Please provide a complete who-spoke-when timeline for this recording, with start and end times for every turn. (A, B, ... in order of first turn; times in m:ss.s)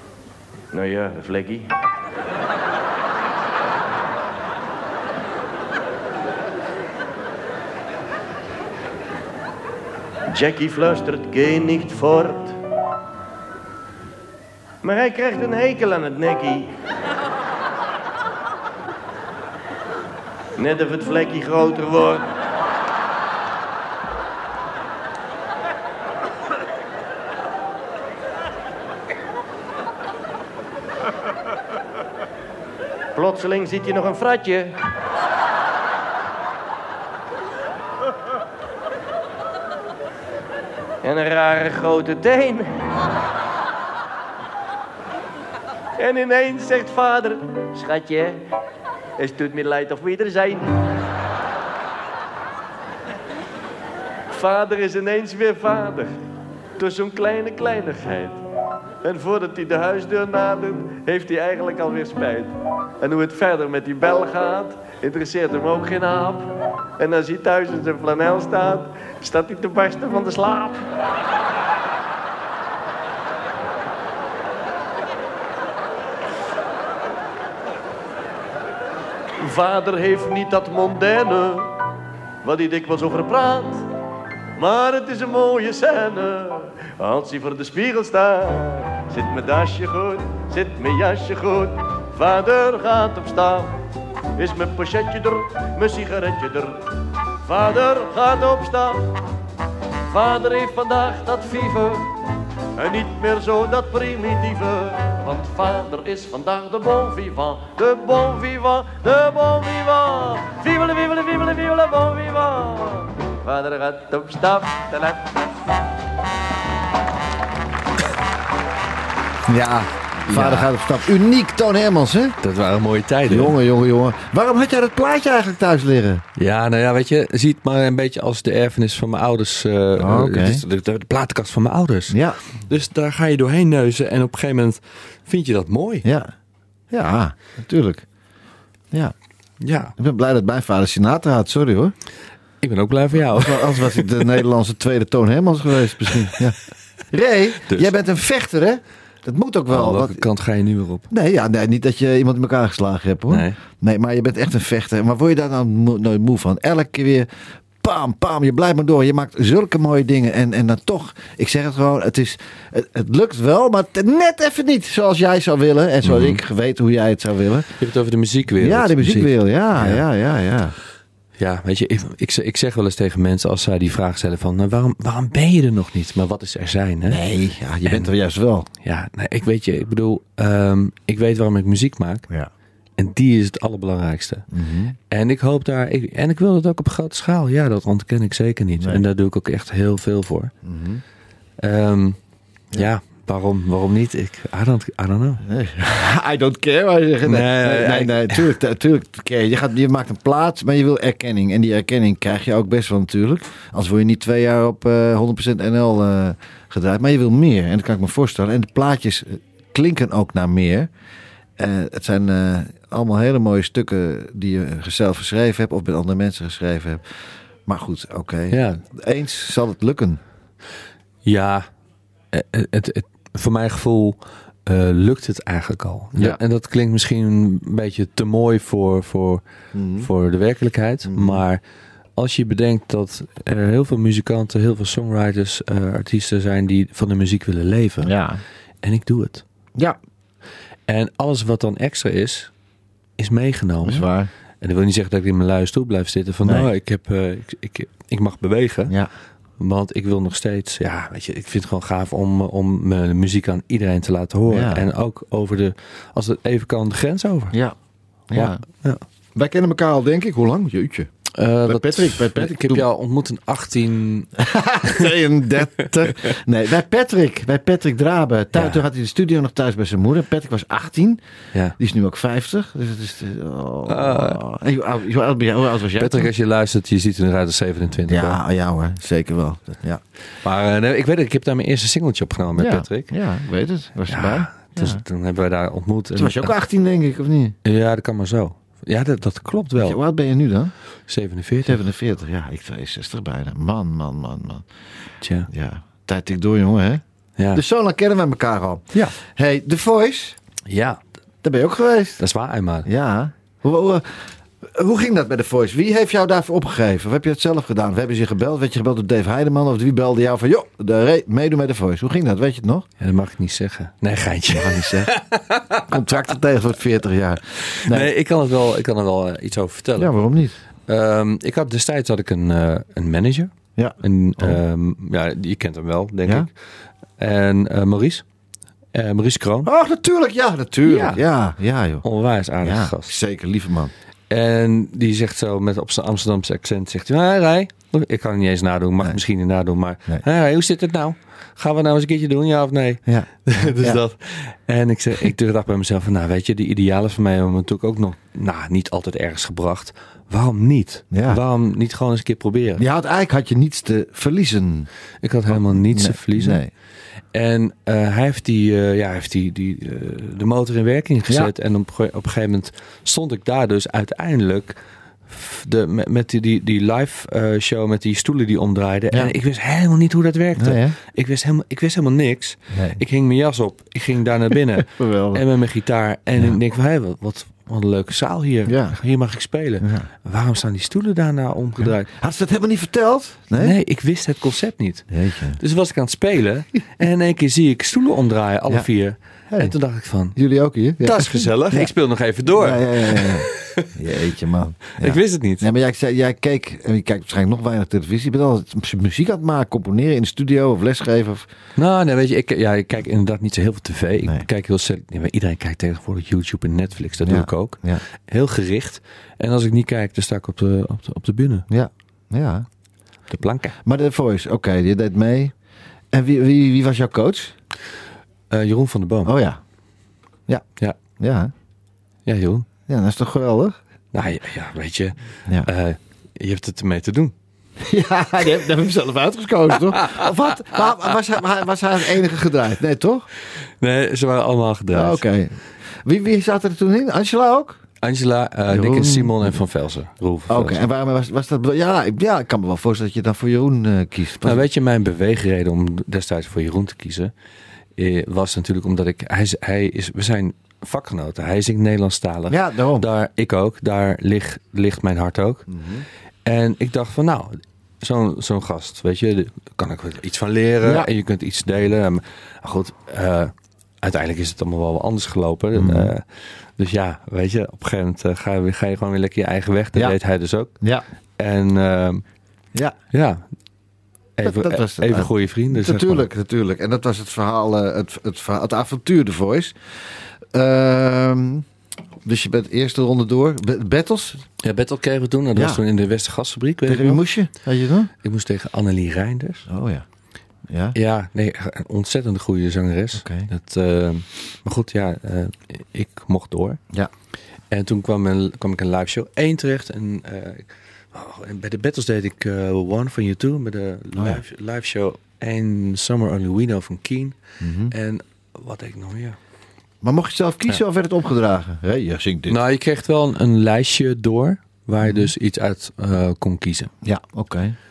0:00.7-0:01.7 A
0:10.3-0:12.6 A
0:14.8-0:16.7 A
0:20.6-0:22.3 A
0:33.2-0:34.8 A
0:41.0-0:43.0 A
0:46.0-0:48.4 A
0:49.2-0:50.8 A
0:54.3-0:56.2 A
0:56.8-0:58.4 A
0:59.0-1:10.8 A
1:19.4-1:21.7 A
1:22.4-1:23.9 A
1:24.6-1:33.8 A
1:34.4-1:36.9 A
1:37.4-1:39.0 A
1:40.1-1:42.1 A
1:42.8-1:55.2 A
1:59.5-2:02.4 B
2:00.3-2:00.7 C
2:02.4-2:03.6 C
2:03.3-2:06.2 B
2:06.4-2:16.0 C
2:10.0-2:10.6 B
2:12.1-2:12.4 B
2:16.0-2:16.3 B
2:16.9-2:18.1 B
2:19.6-2:19.9 C
2:20.0-2:21.9 B
2:22.6-2:24.1 C
2:23.2-2:30.2 B
2:29.7-2:31.1 C
2:31.1-2:37.3 B
2:33.3-2:33.6 C
2:37.8-2:47.8 B
2:46.0-2:46.4 C
2:47.8-2:50.0 C
2:48.6-2:50.8 B
2:51.4-2:57.2 C
2:57.1-2:58.7 B
2:57.8-2:58.1 C
2:58.8-3:02.3 C
3:03.0-3:04.4 C
3:04.5-3:05.0 B
3:05.1-3:10.5 C
3:10.6-3:11.0 B
3:11.6-3:12.2 C
3:12.7-3:15.4 C
3:15.4-3:30.9 B
3:17.2-3:18.6 C
3:31.6-3:40.2 B
3:38.5-3:38.8 C
3:41.2-3:41.7 C
3:42.3-3:49.4 C
3:46.2-3:46.4 B
3:49.7-3:50.1 B
3:50.0-3:51.6 C
3:51.1-3:51.4 B
3:52.2-3:58.2 C
3:58.0-3:58.4 B
3:58.8-3:59.4 C
4:00.9-4:02.6 C
4:03.2-4:09.0 C
4:03.8-4:04.3 B
4:06.4-4:06.7 B
4:09.6-4:17.6 C
4:14.5-4:14.9 B
4:17.5-4:17.8 B
4:18.3-4:18.6 B
4:18.3-4:19.0 C
4:19.4-4:21.1 B
4:21.3-4:24.3 C
4:21.6-4:22.8 B
4:24.4-4:31.2 B
4:28.5-4:28.8 C
4:31.8-4:36.3 B
4:33.9-4:34.4 C
4:36.0-4:38.4 C
4:38.1-4:40.0 B
4:40.4-4:43.1 C
4:42.6-4:45.0 B
4:44.1-4:46.5 C
4:46.2-4:47.6 B
4:47.6-4:50.0 C
4:49.8-4:50.7 B
4:51.1-4:51.8 C
4:51.6-4:54.7 B
4:55.2-4:55.5 C
4:55.5-5:00.4 B
5:00.7-5:01.0 C
5:01.4-5:02.2 B
5:02.2-5:02.9 C
5:02.8-5:12.9 B
5:13.0-5:16.0 C
5:14.5-5:15.1 B
5:15.9-5:18.1 B
5:17.7-5:20.1 C
5:20.0-5:20.6 B
5:20.9-5:26.5 C
5:23.8-5:24.6 B
5:27.2-5:28.3 C
5:28.9-5:29.7 C
5:29.6-5:32.0 B
5:30.8-5:31.2 C
5:32.0-5:33.2 C
5:32.6-5:33.9 B
5:34.3-5:52.8 C
5:43.0-5:44.0 B
5:51.1-5:51.4 B
5:52.8-5:54.9 B
5:55.2-5:56.6 C
5:55.5-5:56.7 B
5:57.3-6:22.1 C
6:10.6-6:11.0 B
6:12.7-6:13.0 B
6:14.8-6:15.4 B
6:18.7-6:19.0 B
6:19.8-6:20.1 B
6:21.8-6:23.8 B
6:23.6-6:30.4 C
6:25.1-6:25.6 B
6:29.5-6:29.8 B
6:30.3-6:41.5 B
6:31.0-6:33.9 C
6:35.0-6:35.7 C
6:41.8-6:51.7 C
6:47.2-6:48.0 B
6:51.7-6:52.7 B
6:53.3-6:53.8 C
6:53.8-6:55.5 B
6:56.1-6:57.5 B
6:58.5-6:59.3 C
6:59.2-6:59.6 B
7:00.5-7:01.5 B
7:02.3-7:02.7 C
7:02.9-7:03.8 B
7:04.1-7:07.3 C
7:07.8-7:13.3 B
7:10.0-7:10.8 C
7:13.5-7:15.2 C
7:14.9-7:17.8 B
7:18.0-7:20.8 C
7:18.7-7:19.6 B
7:20.5-7:24.6 B
7:24.4-7:27.3 C
7:28.0-7:35.7 C
7:32.5-7:33.1 B
7:35.7-7:36.1 B
7:36.4-7:50.8 C
7:40.8-7:41.1 B
7:45.8-7:46.1 B
7:50.0-7:51.0 B
7:51.4-7:52.2 C
7:53.1-7:53.4 C
7:54.4-7:56.3 C
7:54.4-8:01.7 B
8:02.2-8:04.5 B
8:04.6-8:07.2 C
8:05.5-8:05.8 B
8:06.8-8:08.1 B
8:08.2-8:09.7 C
8:09.7-8:10.0 B
8:10.7-8:11.0 B
8:10.9-8:16.8 C
8:13.2-8:13.5 B
8:17.7-8:29.4 C
8:24.2-8:24.4 B
8:27.6-8:27.9 B
8:30.0-8:32.6 B
8:32.5-8:36.9 C
8:35.0-8:35.3 B
8:37.0-8:37.8 B